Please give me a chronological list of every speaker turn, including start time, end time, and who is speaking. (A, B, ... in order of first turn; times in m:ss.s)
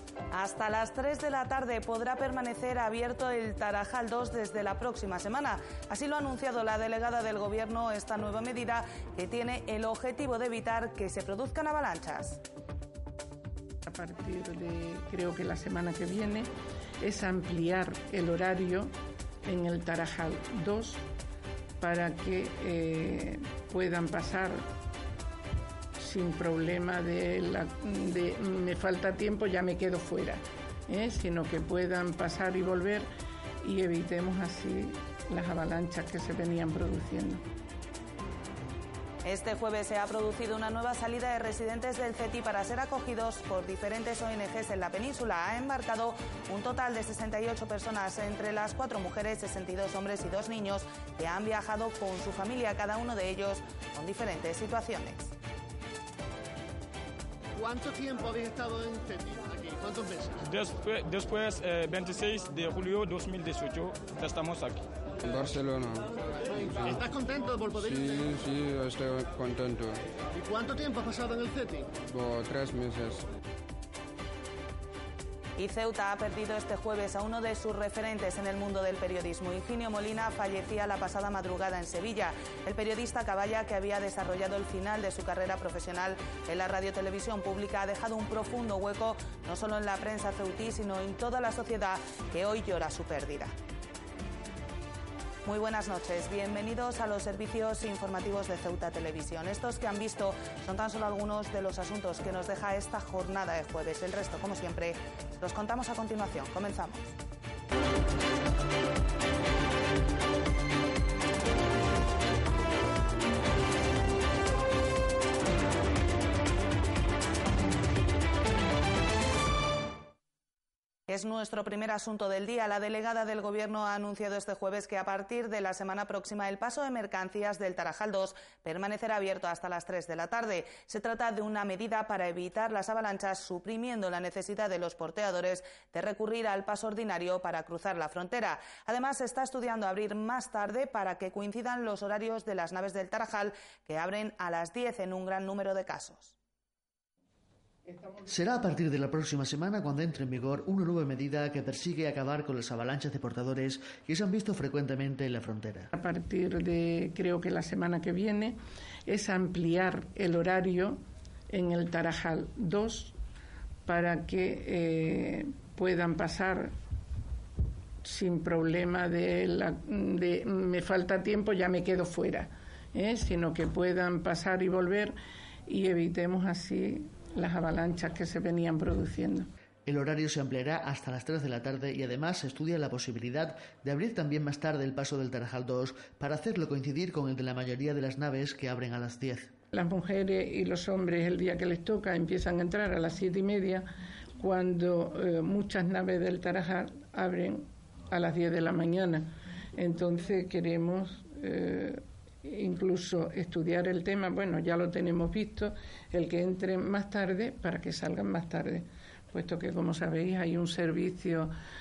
0:00.3-0:12.4 A
0:13.9-0:16.5 B
0:17.0-0:18.9 B
0:19.4-0:21.0 B
0:21.8-0:24.6 B
0:26.0-0:33.1 B
0:33.6-0:37.4 B
0:39.2-0:55.3 A
0:57.6-1:00.4 C
1:00.4-1:04.8 D
1:05.2-1:06.1 E
1:06.4-1:08.3 C
1:06.7-1:07.0 E
1:07.8-1:10.0 E
1:10.3-1:11.9 C
1:12.0-1:13.3 E
1:15.6-1:33.5 A
1:35.4-1:47.1 A
2:01.1-2:26.3 A
2:27.9-2:28.2 B
2:28.2-2:35.9 F
2:35.9-2:43.1 B
2:43.8-2:46.7 B
2:48.0-2:55.1 B
2:55.7-2:59.5 B
2:59.8-3:09.5 F
3:09.7-3:13.8 B
3:14.4-3:31.5 B